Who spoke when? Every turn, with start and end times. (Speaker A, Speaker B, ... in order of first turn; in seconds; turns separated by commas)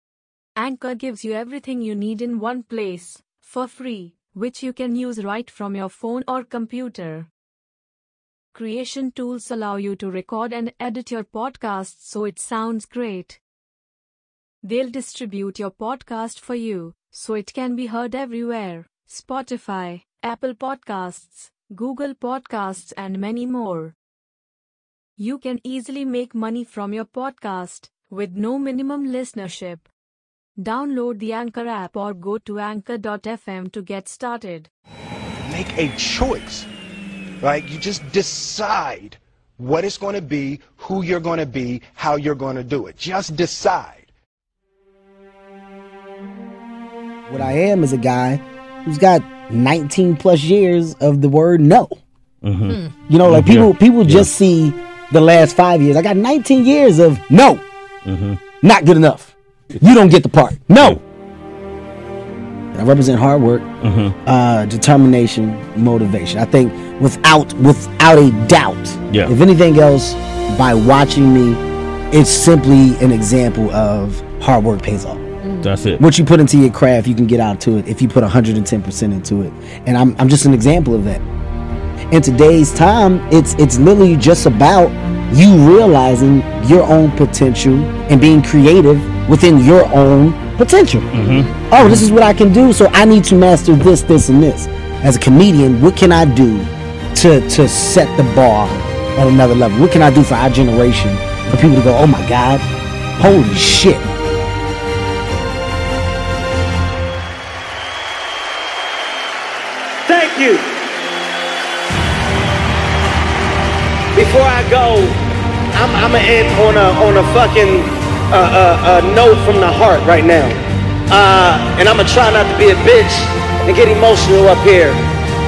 Speaker A: 0.6-7.3, Speaker A: 8.5-13.4, Speaker A: 14.6-23.9, Speaker A: 25.2-29.9, Speaker A: 30.6-34.7, Speaker B: 35.5-36.7, Speaker B: 37.4-44.1, Speaker C: 47.3-52.0, Speaker D: 52.4-54.3, Speaker C: 52.9-57.6, Speaker D: 58.0-58.4, Speaker C: 58.6-61.0, Speaker C: 62.7-63.6, Speaker D: 63.8-64.1, Speaker C: 64.2-75.3, Speaker D: 75.6-76.0, Speaker C: 76.0-81.2, Speaker C: 82.1-102.6, Speaker D: 91.1-92.0, Speaker C: 103.2-104.1, Speaker E: 110.1-110.7, Speaker E: 114.1-115.2, Speaker E: 115.7-120.6, Speaker E: 121.1-125.0